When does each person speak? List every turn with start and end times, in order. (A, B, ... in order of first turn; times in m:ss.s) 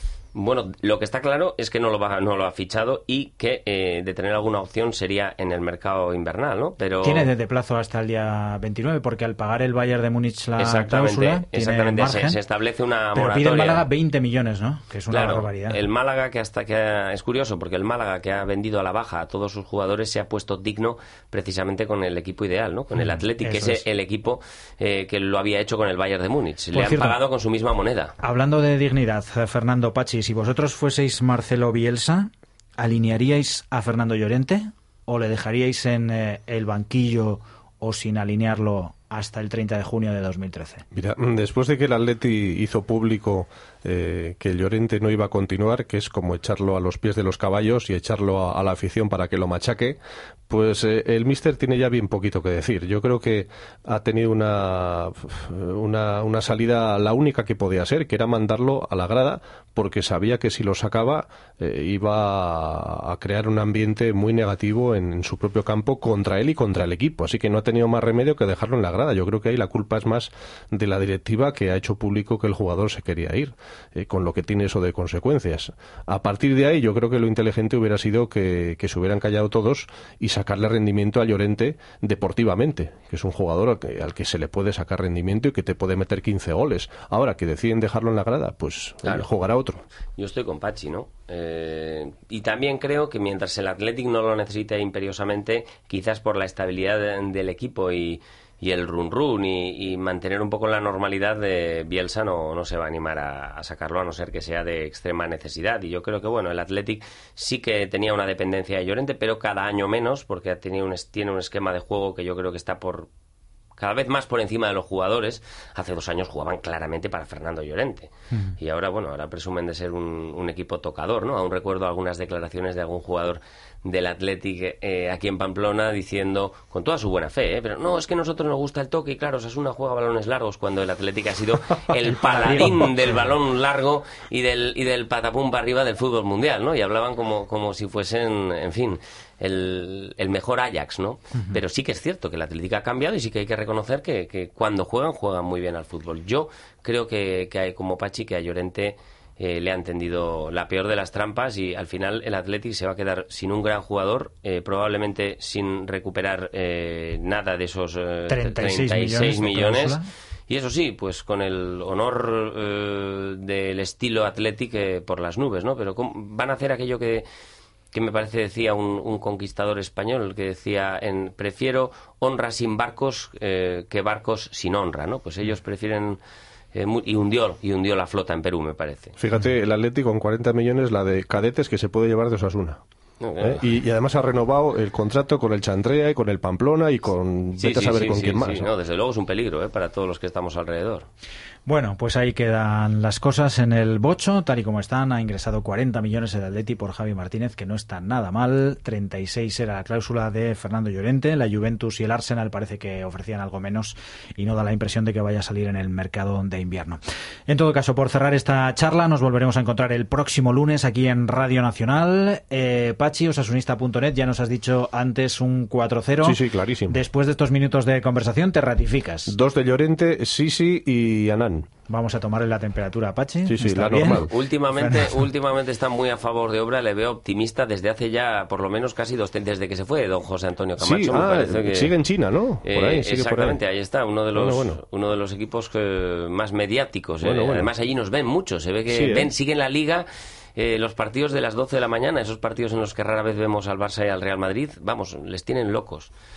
0:00.3-0:07.3 A
0:07.0-0:12.4 B
0:10.6-0:13.8 A
0:13.1-0:15.8 B
0:15.1-0:28.1 A
0:23.0-0:23.8 B
0:26.7-0:27.2 B
0:28.2-0:40.8 B
0:40.9-0:50.0 C
0:50.5-1:29.8 C
1:30.2-1:53.1 A
1:53.8-2:40.0 A
2:12.2-2:12.9 B
2:38.3-2:40.0 B
2:40.5-2:47.2 A
2:47.9-2:56.2 A
2:56.7-2:59.1 A
2:59.2-3:02.8 C
3:03.2-3:03.6 A
3:03.4-3:08.7 C
3:07.6-3:11.1 A
3:11.6-3:39.4 B
3:36.2-3:37.0 C
3:39.3-3:41.6 C
3:41.9-3:45.2 B
3:43.4-3:44.3 C
3:44.0-3:52.0 A
3:50.8-3:53.6 C
3:52.6-4:06.1 A
3:54.3-3:54.8 C
3:57.2-3:57.7 C
3:58.9-3:59.3 C